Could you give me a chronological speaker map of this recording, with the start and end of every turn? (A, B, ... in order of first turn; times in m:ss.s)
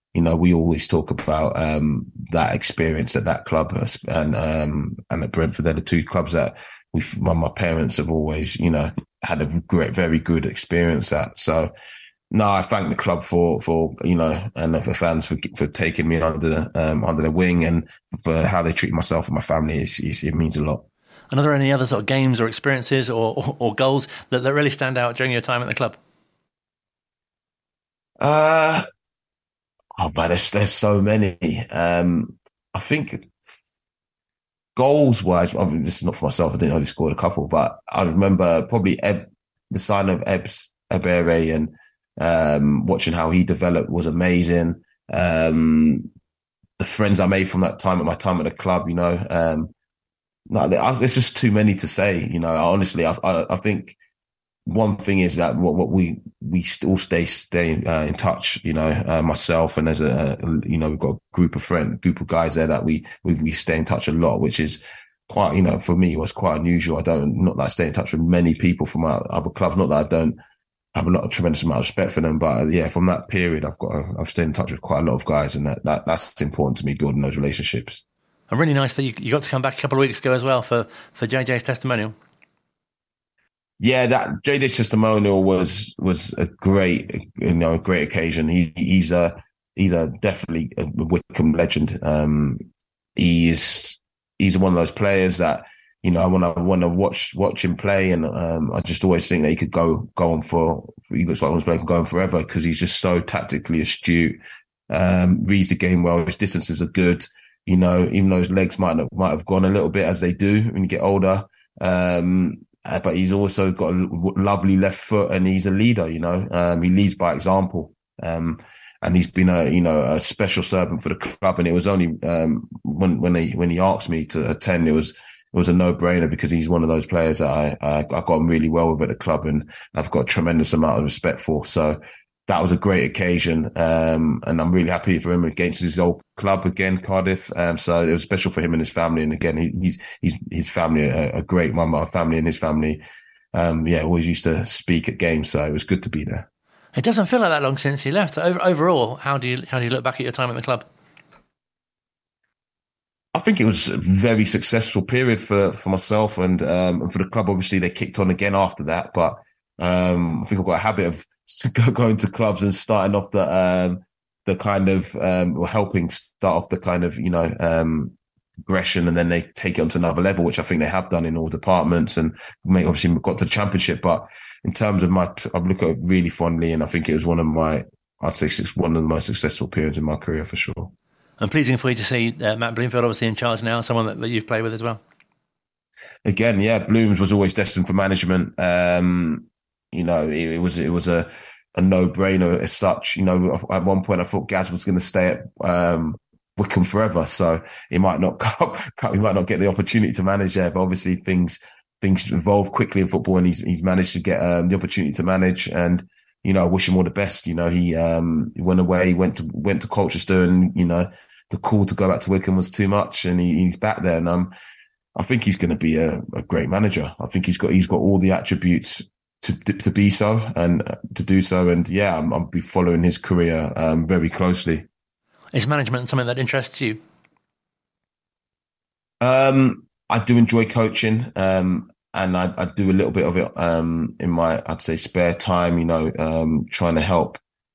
0:00.1-0:11.7 A
0:12.3-0:20.8 A
0:21.3-0:26.0 B
0:28.2-0:28.8 A
0:30.0-0:33.5 A
0:34.8-0:46.1 A
0:46.8-0:49.7 A
0:50.5-0:54.0 A
0:54.6-1:10.4 A
1:10.9-1:18.0 A
1:18.5-1:22.1 B
1:23.8-1:44.4 A
1:44.9-2:23.0 A
2:23.5-2:26.4 A
2:26.9-2:30.8 B
2:33.3-2:48.1 A
2:48.6-3:00.9 A
3:01.4-3:05.0 B
3:06.2-3:34.5 A
3:35.1-3:44.8 A
3:45.5-3:47.0 B
3:49.2-3:57.4 A